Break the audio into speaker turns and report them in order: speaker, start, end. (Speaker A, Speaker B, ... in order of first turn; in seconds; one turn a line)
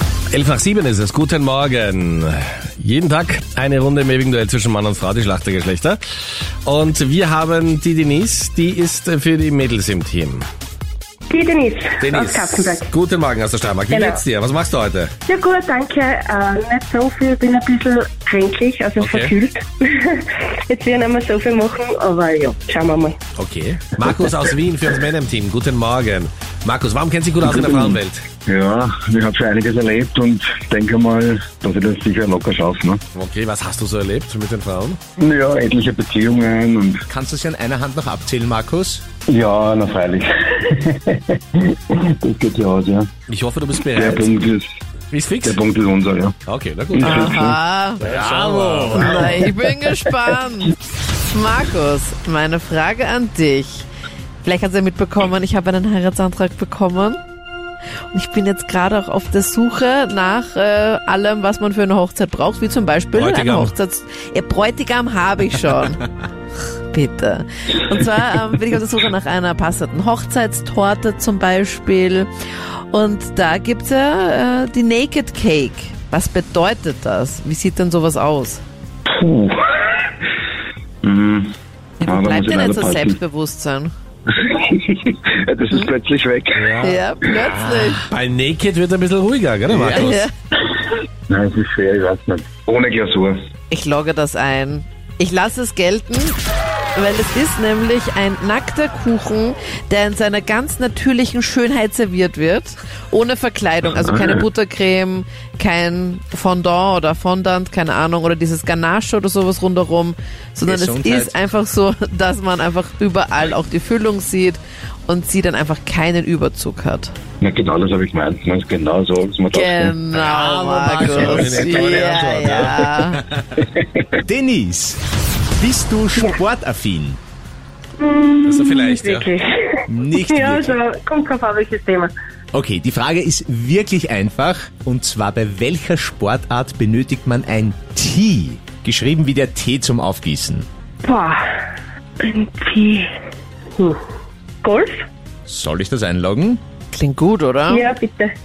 Speaker A: 0.3-6.0
Speaker A: 6.6-10.5
Speaker B: 11.3-12.9
Speaker A: 12.0-15.1
Speaker B: 13.9-14.2
Speaker B: 15.3-23.2
Speaker A: 19.0-19.3
Speaker A: 23.4-28.2
Speaker C: 27.4-33.0
Speaker A: 33.1-35.0
Speaker C: 35.2-37.0
Speaker D: 37.1-39.0
Speaker C: 39.3-43.1
Speaker A: 43.3-44.3
Speaker C: 43.9-44.6
Speaker A: 45.1-45.6
Speaker C: 45.4-46.3
Speaker A: 46.5-47.4
Speaker C: 46.9-47.6
Speaker E: 47.0-48.0
Speaker A: 48.0-49.3
Speaker D: 48.0-49.4
Speaker E: 48.9-50.8
Speaker E: 51.3-53.9
Speaker E: 54.4-57.2
Speaker E: 58.1-66.0
Speaker A: 63.1-63.7
Speaker E: 66.9-72.3
Speaker E: 72.9-78.6
Speaker C: 79.1-80.0
Speaker C: 81.0-81.5
Speaker E: 82.0-83.9
Speaker C: 82.0-83.2
Speaker C: 84.3-86.8
Speaker A: 86.5-87.0
Speaker E: 86.8-88.0
Speaker D: 87.3-88.0
Speaker A: 88.1-90.2
Speaker D: 89.7-90.2
Speaker E: 89.9-90.3
Speaker C: 91.3-93.4
Speaker E: 93.7-96.4
Speaker E: 96.9-117.1
Speaker C: 104.0-104.4
Speaker D: 110.6-111.4
Speaker C: 117.4-120.0
Speaker E: 119.5-123.2
Speaker D: 120.1-121.9
Speaker A: 121.0-122.9
Speaker D: 122.8-123.5
Speaker D: 124.2-125.0
Speaker D: 125.5-127.2
Speaker B: 126.2-126.4
Speaker B: 128.0-132.1
Speaker A: 128.4-129.3
Speaker D: 129.9-130.8
Speaker D: 132.5-140.7
Speaker B: 141.0-141.4
Speaker B: 142.2-143.1
Speaker B: 144.6-144.9
Speaker D: 145.4-146.6
Speaker E: 146.9-147.9
Speaker B: 147.7-148.3